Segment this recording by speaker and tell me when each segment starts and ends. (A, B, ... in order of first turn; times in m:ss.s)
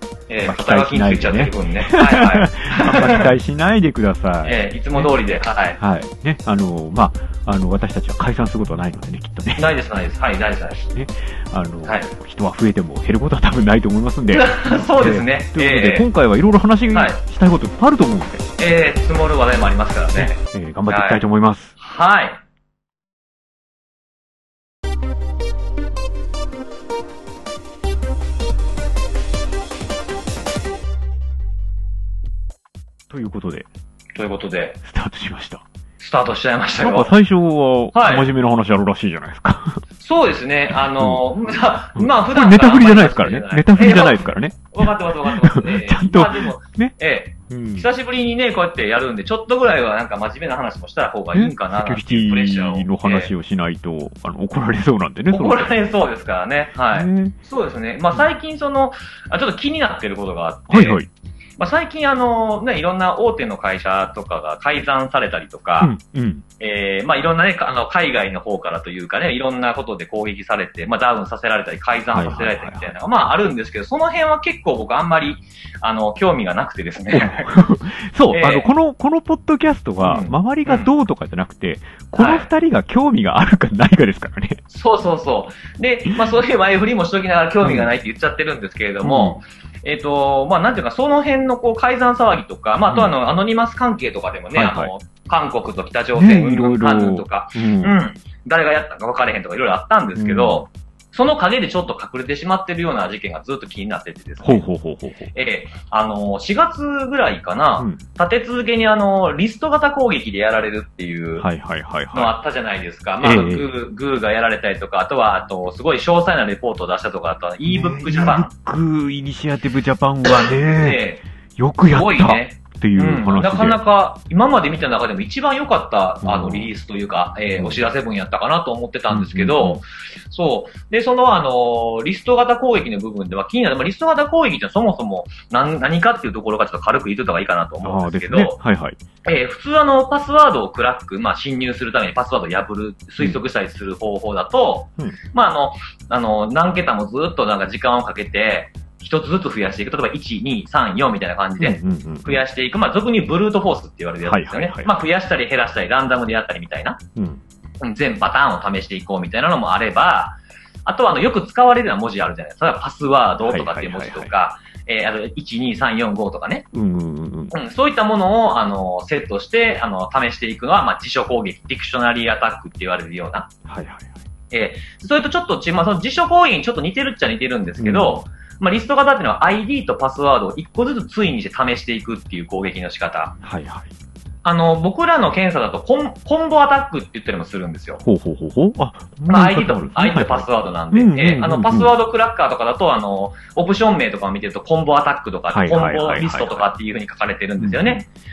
0:00.3-0:03.3 A
0:00.4-0:05.1 B
0:04.4-0:05.8 A
0:05.8-0:09.7 B
0:09.6-0:10.8 A
0:10.9-0:18.5 B
0:11.8-0:12.1 A
0:14.3-0:16.1 A
0:16.9-0:17.2 A
0:18.6-0:20.4 A
0:20.2-0:21.7 B
0:20.9-0:21.2 A
0:21.8-0:22.4 A
0:33.1-0:33.7 B
0:34.2-0:34.8 A
0:34.8-0:35.6 B
0:36.0-0:37.1 A
0:36.8-0:39.8 B
0:37.9-0:38.3 A
0:40.0-0:53.3 A
0:40.7-0:41.2 B
0:42.0-0:47.0 B
0:47.5-0:47.9 B
0:51.3-0:55.7 B
0:55.3-1:01.0 A
0:56.9-0:57.4 B
1:00.7-1:01.1 B
1:01.6-1:05.9 A
1:05.8-1:06.4 B
1:06.6-1:17.6 A
1:12.1-1:13.0 B
1:17.1-1:24.6 B
1:18.3-1:18.7 A
1:20.0-1:20.9 A
1:22.2-1:22.5 A
1:24.7-1:44.6 A
1:27.6-1:27.9 B
1:29.0-1:29.4 B
1:34.5-1:34.9 B
1:36.2-1:38.0 B
1:40.2-1:40.6 B
1:44.4-1:45.3 B
1:45.3-1:51.5 A
1:51.4-1:52.4 B
1:52.1-1:58.5 A
1:53.2-1:53.7 B
1:57.7-2:03.8 B
2:00.3-2:01.2 A
2:01.9-2:18.6 A
2:06.2-2:06.7 B
2:07.6-2:07.8 B
2:09.1-2:09.8 B
2:17.8-2:19.0 B
2:19.2-2:37.0 A
2:31.6-2:32.4 B
2:34.2-2:34.9 B
2:37.2-2:37.4 B
2:37.8-2:46.7 A
2:43.4-2:44.3 B
2:46.7-2:47.6 B
2:47.5-2:53.5 A
2:53.7-2:54.1 B
2:54.5-3:03.4 A
2:57.8-2:58.2 B
3:03.4-3:03.9 B
3:04.4-3:08.0 A
3:08.0-3:11.9 B
3:09.3-3:18.1 A
3:15.5-3:16.7 B
3:17.6-3:18.0 B